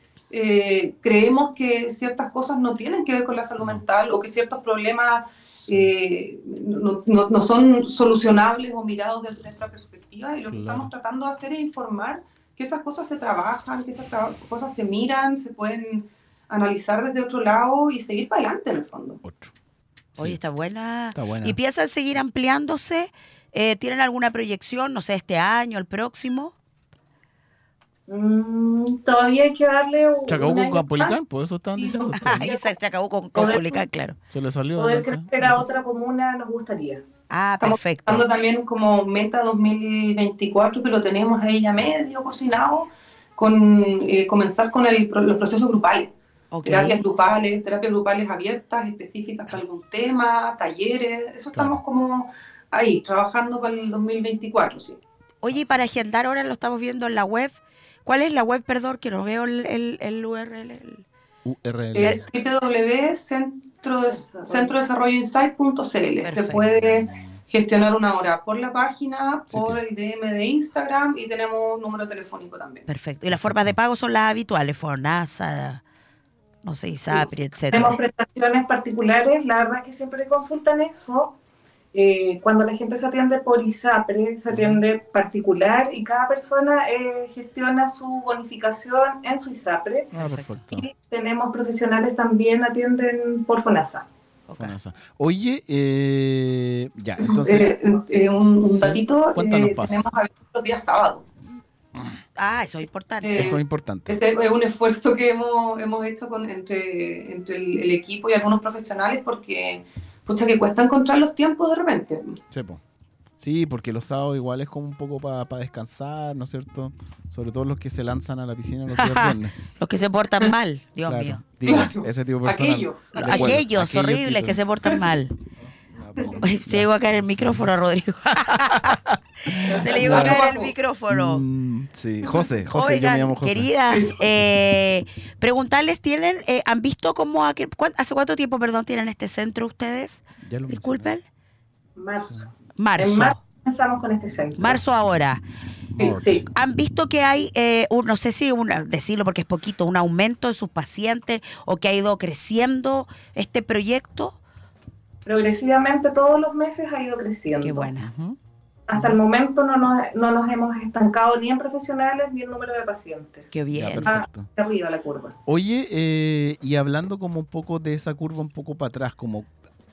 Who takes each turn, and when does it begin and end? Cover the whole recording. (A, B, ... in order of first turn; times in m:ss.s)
0:00.3-0:19.2 A
0:03.6-0:03.8 B
0:10.5-0:10.9 B
0:19.2-0:19.5 B
0:20.1-0:20.4 B
0:20.2-0:26.5 C
0:21.1-0:21.6 B
0:28.1-0:31.2 D
0:30.3-0:32.5 B
0:31.8-0:32.7 D
0:32.2-0:34.2 C
0:33.3-0:33.8 D
0:34.3-0:35.7 B
0:34.8-0:37.0 D
0:37.3-0:38.2 C
0:37.6-0:46.1 A
0:46.5-0:47.0 C
0:46.6-0:55.0 A
0:51.5-0:51.8 B
0:55.4-1:01.0 C
1:01.4-1:02.2 B
1:01.9-1:12.9 A
1:04.0-1:04.8 D
1:06.2-1:06.8 C
1:06.7-1:07.4 B
1:09.5-1:09.8 B
1:12.9-1:15.8 C
1:13.3-1:13.8 B
1:16.6-1:18.0 C
1:17.7-1:21.4 D
1:21.9-1:30.1 D
1:24.5-1:24.8 B
1:30.1-1:30.9 B
1:30.2-1:30.6 C
1:30.7-1:34.0 D
1:34.5-1:34.7 C
1:34.6-1:40.1 B
1:37.2-1:41.2 A
1:42.4-1:43.6 C
1:43.2-1:52.4 A
1:43.3-1:44.2 B
1:52.5-1:52.8 B
1:53.4-1:59.6 B
1:59.0-2:01.8 C
2:01.0-2:04.6 B
2:01.6-2:03.6 A
2:03.1-2:05.3 C
2:05.6-2:07.8 B
2:06.4-2:11.4 C
2:08.4-2:10.4 B
2:09.7-2:10.7 A
2:11.1-2:14.5 B
2:12.7-2:21.2 C
2:20.4-2:21.1 B
2:22.0-2:24.8 D
2:22.2-2:22.5 B
2:22.8-2:23.4 C
2:24.6-2:25.4 C
2:25.9-2:26.5 B
2:26.0-2:26.4 D
2:26.4-2:34.4 C
2:35.2-2:37.9 D
2:37.6-2:38.1 C
2:38.0-2:38.4 B
2:38.9-2:45.3 D
2:43.5-2:44.1 C
2:43.7-2:44.5 B
2:45.4-2:49.5 B